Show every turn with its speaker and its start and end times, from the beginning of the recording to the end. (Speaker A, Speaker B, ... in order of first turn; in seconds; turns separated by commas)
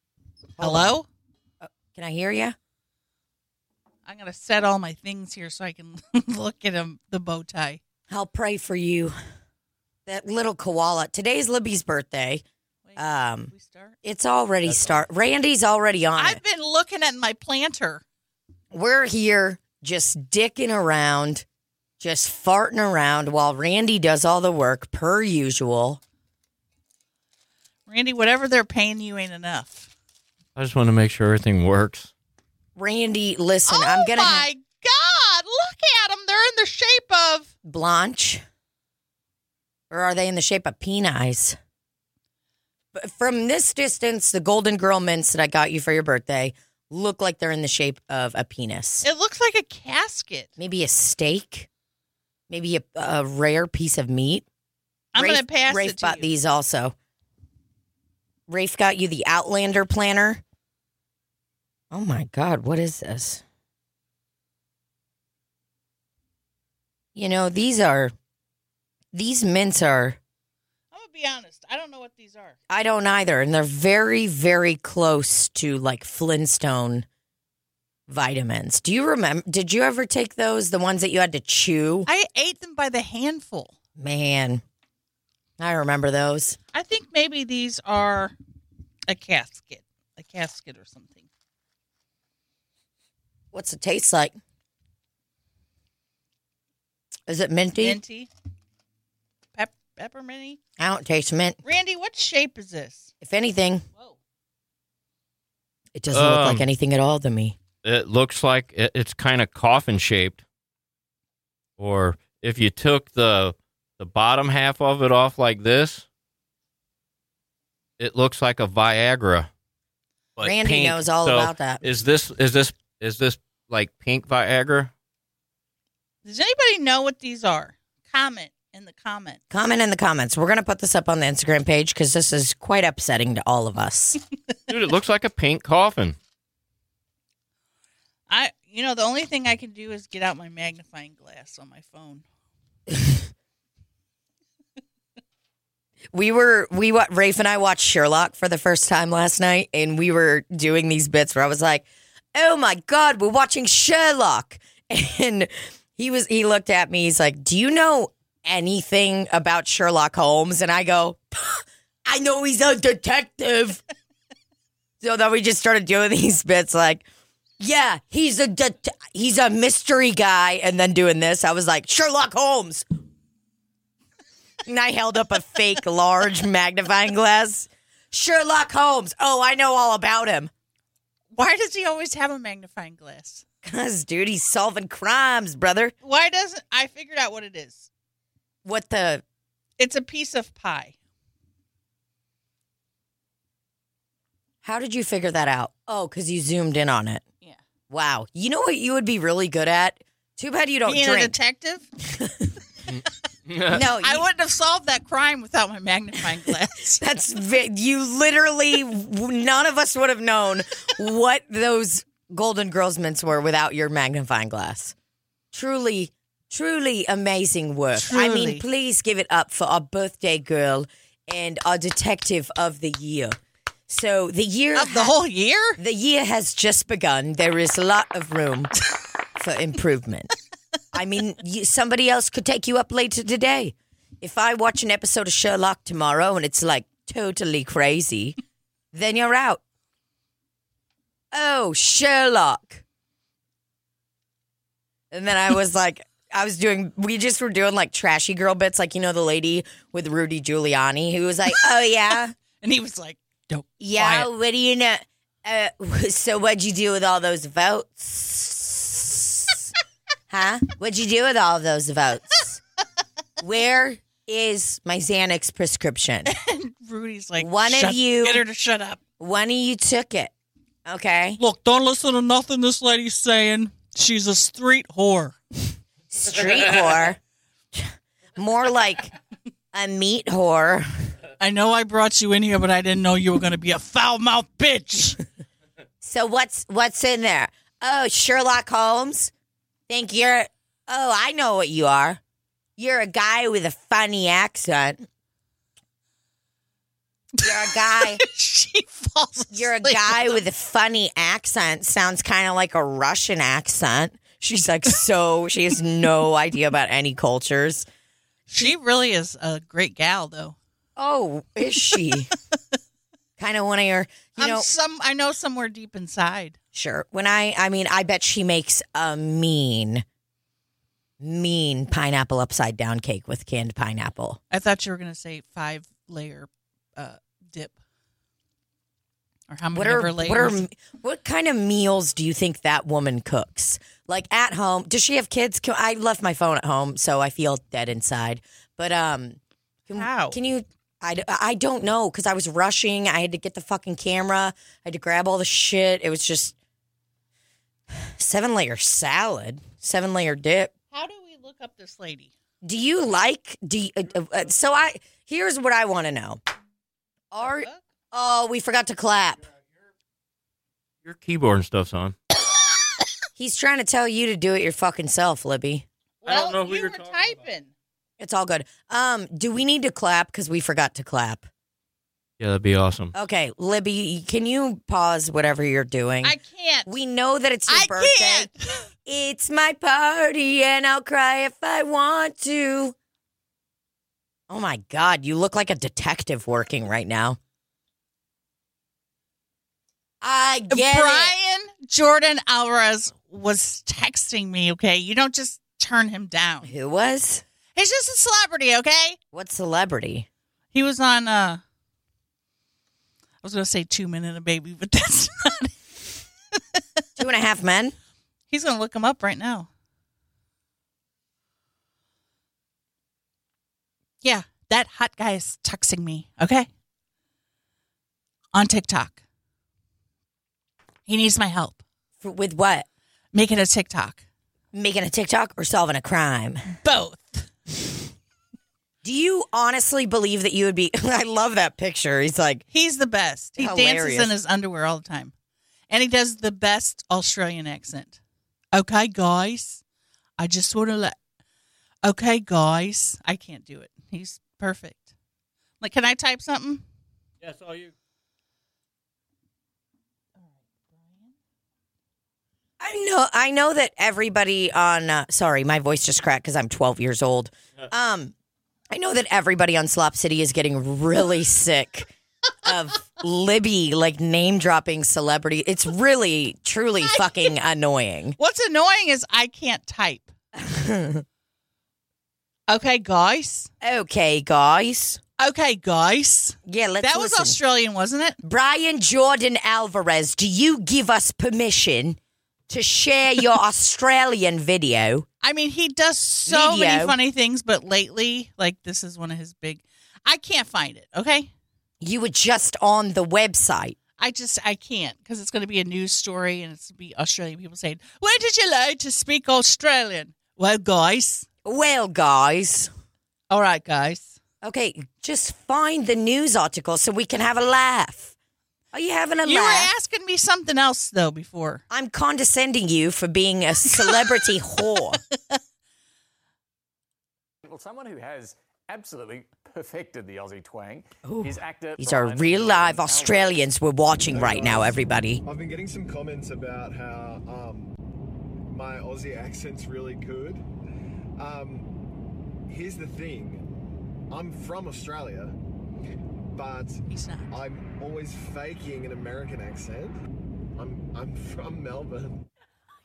Speaker A: 0.6-0.9, Speaker B: 0.6-1.1, Speaker A: 1.6-2.5, Speaker B: 4.0-7.8, Speaker A: 8.1-9.2, Speaker A: 10.1-12.4, Speaker B: 12.8-14.0, Speaker A: 13.0-13.5, Speaker A: 14.0-16.4, Speaker B: 16.2-18.0, Speaker A: 18.7-21.4, Speaker A: 22.0-26.0, Speaker B: 27.9-29.9, Speaker C: 30.6-32.1, Speaker A: 32.8-34.5, Speaker B: 33.7-37.5, Speaker A: 37.6-38.4, Speaker A: 39.9-41.6, Speaker A: 42.9-49.0, Speaker B: 49.0-50.5, Speaker A: 50.6-51.7, Speaker A: 52.5-54.4, Speaker B: 55.1-56.3, Speaker A: 55.2-56.9, Speaker A: 58.5-60.4, Speaker A: 61.9-63.4, Speaker A: 67.1-68.1, Speaker A: 69.1-70.2, Speaker B: 70.9-72.6, Speaker A: 72.7-77.0, Speaker A: 78.1-82.1, Speaker B: 82.0-83.7, Speaker A: 84.0-84.6, Speaker A: 85.6-86.6, Speaker B: 86.7-88.3, Speaker B: 89.1-91.3, Speaker A: 93.5-94.4, Speaker A: 97.3-98.0, Speaker B: 97.8-98.3, Speaker B: 99.5-100.6, Speaker A: 100.8-101.6, Speaker B: 101.6-103.1, Speaker A: 103.2-103.8, Speaker A: 105.9-107.6, Speaker C: 106.1-106.7, Speaker C: 107.8-110.4, Speaker C: 111.8-116.0, Speaker C: 118.0-119.5, Speaker C: 120.4-124.9, Speaker A: 120.4-121.8, Speaker B: 126.2-129.4, Speaker A: 129.5-134.2, Speaker C: 134.7-136.2, Speaker B: 138.3-142.2, Speaker A: 146.1-163.8, Speaker A: 165.0-167.1, Speaker A: 167.6-172.9, Speaker A: 174.6-180.5, Speaker B: 181.3-183.4, Speaker A: 183.6-185.9, Speaker B: 186.0-187.9, Speaker A: 188.6-189.2, Speaker B: 189.8-190.9, Speaker A: 194.6-197.2, Speaker A: 197.9-201.4, Speaker B: 200.8-201.9, Speaker A: 202.0-202.5, Speaker C: 202.9-203.8, Speaker A: 203.7-204.2, Speaker B: 204.0-207.0, Speaker A: 207.0-214.9, Speaker A: 215.5-223.4, Speaker B: 217.9-218.6, Speaker A: 223.9-225.1, Speaker B: 224.8-225.8, Speaker A: 225.8-228.7, Speaker A: 229.4-230.3, Speaker A: 230.9-238.4, Speaker A: 238.9-239.6, Speaker A: 241.3-242.8, Speaker A: 245.1-252.3, Speaker B: 252.6-254.3, Speaker A: 253.8-259.7, Speaker A: 260.3-262.6, Speaker A: 263.4-266.3, Speaker B: 266.2-269.0, Speaker A: 267.4-268.4, Speaker A: 269.2-270.3, Speaker A: 270.8-271.4, Speaker B: 271.4-275.4, Speaker A: 276.1-277.2, Speaker A: 277.7-279.1, Speaker A: 279.7-281.1, Speaker B: 281.4-285.2, Speaker A: 286.0-289.3, Speaker A: 289.9-292.2, Speaker A: 292.8-295.0, Speaker A: 297.4-298.2, Speaker B: 297.4-300.4, Speaker A: 299.5-307.9, Speaker B: 308.5-310.6, Speaker A: 310.9-312.3, Speaker A: 313.4-314.7, Speaker B: 314.4-316.6, Speaker A: 316.7-320.0, Speaker A: 321.2-324.4, Speaker B: 324.5-327.8, Speaker B: 329.5-330.6, Speaker A: 329.7-346.5, Speaker B: 339.9-340.4, Speaker A: 347.9-350.7, Speaker B: 350.9-352.3, Speaker A: 352.6-356.4, Speaker A: 357.3-359.4, Speaker B: 357.4-357.8, Speaker C: 361.0-362.1, Speaker A: 363.4-365.8, Speaker B: 366.2-367.7, Speaker C: 366.2-367.3, Speaker A: 368.2-371.5, Speaker C: 372.4-373.1, Speaker A: 373.1-378.5, Speaker B: 376.2-376.9, Speaker B: 377.7-378.8, Speaker A: 379.1-382.9, Speaker A: 384.5-387.4, Speaker A: 390.2-391.3, Speaker B: 390.7-396.7, Speaker A: 396.6-397.4, Speaker B: 397.8-399.2, Speaker A: 399.3-400.3, Speaker B: 400.7-401.6, Speaker B: 403.4-405.8, Speaker B: 406.6-406.8, Speaker A: 407.1-407.9, Speaker B: 408.5-409.7, Speaker B: 414.2-416.7, Speaker B: 418.5-419.2, Speaker B: 421.1-421.8, Speaker A: 422.2-422.9, Speaker B: 423.3-424.2, Speaker A: 424.7-426.7, Speaker B: 426.8-427.5, Speaker A: 429.0-432.6, Speaker B: 432.7-435.3, Speaker A: 433.6-434.3, Speaker B: 435.9-438.2, Speaker B: 438.7-439.8, Speaker B: 440.4-441.2, Speaker B: 442.0-445.1, Speaker B: 445.8-446.8, Speaker C: 447.4-447.9, Speaker B: 450.4-451.3, Speaker A: 452.8-458.3, Speaker A: 458.9-462.1, Speaker A: 462.6-468.4, Speaker B: 467.0-467.5, Speaker B: 468.4-470.3, Speaker A: 470.5-471.2, Speaker B: 472.7-473.7, Speaker A: 473.8-475.2, Speaker B: 475.4-478.4, Speaker A: 476.6-477.6, Speaker A: 478.4-482.2, Speaker A: 482.7-485.3, Speaker B: 485.4-491.5, Speaker A: 486.4-487.1, Speaker A: 492.0-493.9, Speaker B: 494.2-501.4, Speaker A: 501.6-502.9, Speaker B: 503.5-504.4, Speaker A: 504.6-508.3, Speaker A: 508.9-509.9, Speaker B: 509.4-511.8, Speaker A: 511.9-515.2, Speaker B: 513.9-514.3, Speaker D: 517.6-523.7, Speaker A: 521.2-525.4, Speaker E: 524.3-528.0, Speaker E: 528.7-530.6, Speaker E: 531.4-531.9, Speaker E: 532.7-533.6, Speaker E: 534.3-535.6, Speaker E: 536.5-540.2, Speaker B: 537.1-537.5, Speaker E: 540.8-542.4